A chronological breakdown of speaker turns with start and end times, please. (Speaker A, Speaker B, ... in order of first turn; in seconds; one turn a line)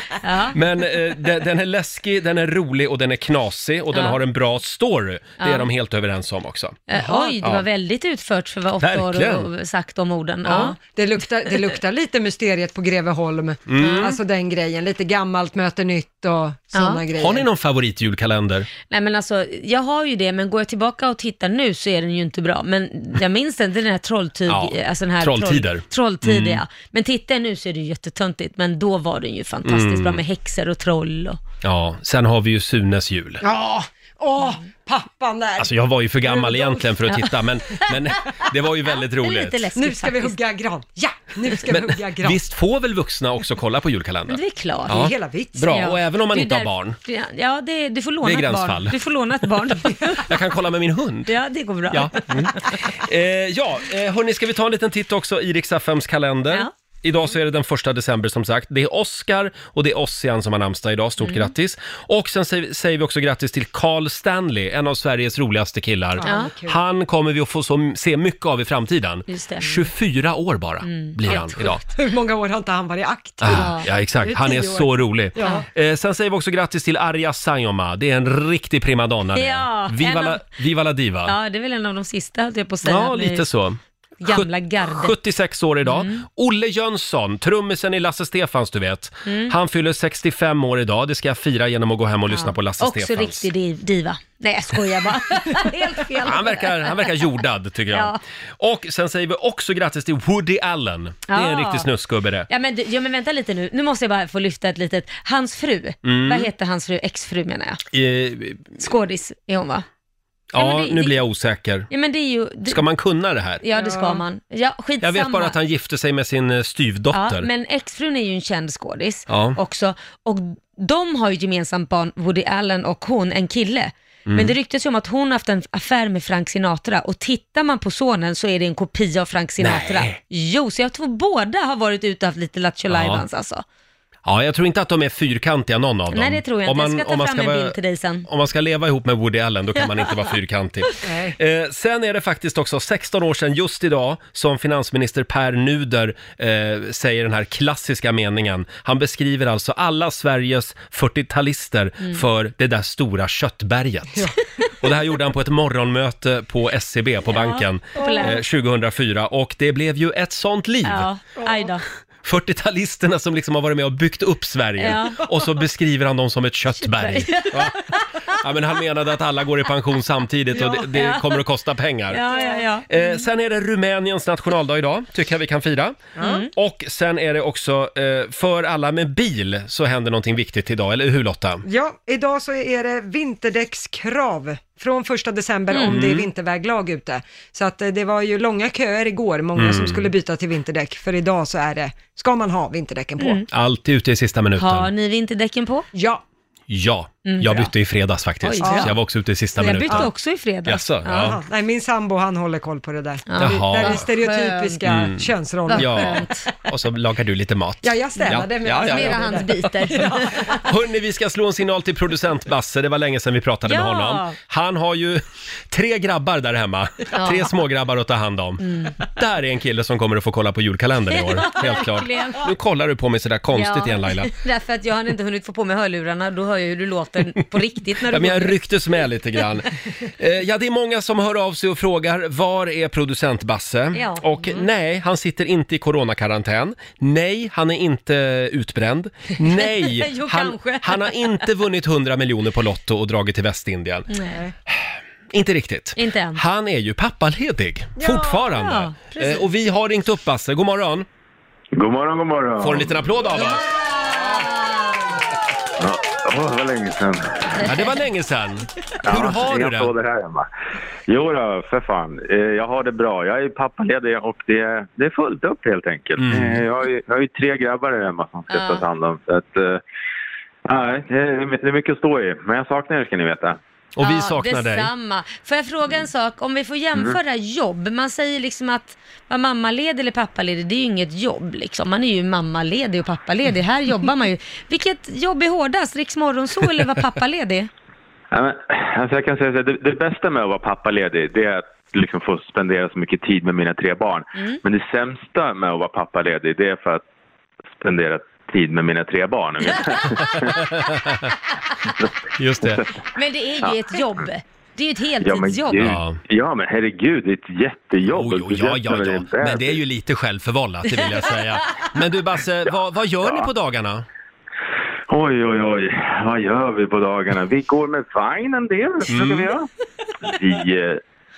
Speaker A: 0.2-0.6
Speaker B: 0.5-6.8
Speaker A: 3.9-4.2
Speaker A: 5.4-5.7
Speaker A: 6.9-10.8
Speaker C: 7.0-7.3
Speaker B: 8.8-9.5
Speaker C: 10.4-17.5
Speaker B: 13.7-14.1
Speaker A: 13.8-14.1
Speaker A: 16.7-17.0
Speaker B: 17.1-18.7
Speaker A: 18.9-31.4
Speaker B: 24.5-26.6
Speaker B: 29.6-30.2
Speaker B: 31.6-33.4
Speaker C: 33.4-35.7
Speaker B: 35.6-39.7
Speaker C: 36.2-36.9
Speaker A: 39.2-40.4
Speaker C: 39.8-42.4
Speaker B: 41.7-47.0
Speaker A: 44.3-45.0
Speaker C: 44.9-45.8
Speaker A: 45.7-50.3
Speaker B: 48.2-48.9
Speaker B: 50.2-51.3
Speaker A: 51.3-52.8
Speaker B: 51.9-71.8
Speaker A: 61.2-61.5
Speaker C: 66.2-66.8
Speaker A: 66.2-66.5
Speaker A: 69.3-69.7
Speaker A: 70.8-71.7
Speaker C: 71.9-75.7
Speaker B: 73.4-81.3
Speaker A: 73.5-73.9
Speaker A: 79.3-80.4
Speaker A: 81.2-83.5
Speaker B: 82.8-93.5
Speaker A: 84.2-85.1
Speaker A: 85.8-86.2
Speaker A: 89.2-89.5
Speaker A: 92.3-97.1
Speaker B: 96.2-102.5
Speaker A: 97.9-98.2
Speaker A: 101.3-101.9
Speaker A: 102.5-107.8
Speaker B: 106.0-106.5
Speaker B: 107.9-108.8
Speaker A: 108.8-109.8
Speaker B: 110.5-111.9
Speaker A: 110.5-111.2
Speaker A: 111.9-112.8
Speaker B: 112.7-113.6
Speaker A: 113.6-115.5
Speaker C: 113.7-114.2
Speaker B: 115.0-117.5
Speaker A: 117.1-133.6
Speaker B: 119.3-119.6
Speaker B: 124.3-124.5
Speaker B: 129.6-130.2
Speaker B: 132.9-133.2
Speaker B: 134.2-137.7
Speaker A: 136.1-138.3
Speaker B: 138.2-161.1
Speaker C: 141.0-141.4
Speaker A: 157.3-158.4
Speaker C: 157.9-158.4
Speaker A: 160.8-161.8
Speaker C: 161.4-161.7
Speaker B: 162.2-172.2
Speaker A: 164.8-165.3
Speaker A: 166.8-168.2
Speaker A: 170.6-171.4
Speaker A: 172.1-173.2
Speaker C: 172.3-172.7
Speaker B: 172.9-176.0
Speaker C: 176.2-176.5
Speaker A: 176.2-176.5
Speaker B: 176.5-181.6
Speaker C: 181.6-193.4
Speaker A: 185.7-185.9
Speaker B: 185.8-186.3
Speaker B: 189.6-190.1
Speaker A: 193.2-193.4
Speaker B: 193.5-194.9
Speaker A: 194.6-195.9
Speaker C: 195.9-196.2
Speaker B: 196.7-200.1
Speaker A: 197.2-197.7
Speaker A: 198.4-198.9
Speaker C: 198.6-198.9
Speaker A: 199.6-201.3
Speaker C: 199.6-200.1
Speaker B: 200.7-201.4
Speaker C: 201.1-206.3
Speaker A: 203.3-204.9
Speaker B: 203.4-204.1
Speaker B: 204.8-209.7
Speaker A: 205.7-206.5
Speaker C: 207.8-210.6
Speaker A: 208.8-210.7
Speaker B: 210.6-224.3
Speaker A: 213.7-214.3
Speaker A: 217.1-217.5
Speaker A: 218.6-219.0
Speaker A: 221.1-222.5
Speaker A: 223.5-228.6
Speaker B: 228.1-244.1
Speaker A: 233.9-234.2
Speaker A: 239.4-241.4
Speaker A: 244.1-244.4
Speaker B: 245.3-251.1
Speaker A: 246.0-246.4
Speaker C: 248.0-248.3
Speaker A: 248.1-249.4
Speaker D: 251.7-253.3
Speaker B: 252.6-253.7
Speaker A: 253.3-255.2
Speaker D: 255.8-257.5
Speaker B: 257.6-259.9
Speaker D: 259.0-260.5
Speaker D: 261.1-269.8
Speaker B: 266.2-266.6
Speaker A: 268.5-268.8
Speaker D: 270.6-273.6
Speaker B: 273.9-274.9
Speaker A: 274.0-287.7
Speaker D: 288.3-297.0
Speaker A: 294.3-294.6
Speaker D: 297.8-300.7
Speaker B: 300.3-301.3
Speaker B: 302.4-302.8
Speaker D: 302.6-303.0
Speaker A: 303.1-305.9
Speaker D: 305.2-309.8
Speaker B: 305.8-306.2
Speaker B: 308.1-314.1
Speaker D: 315.1-319.7
Speaker B: 319.1-319.5
Speaker D: 320.2-321.0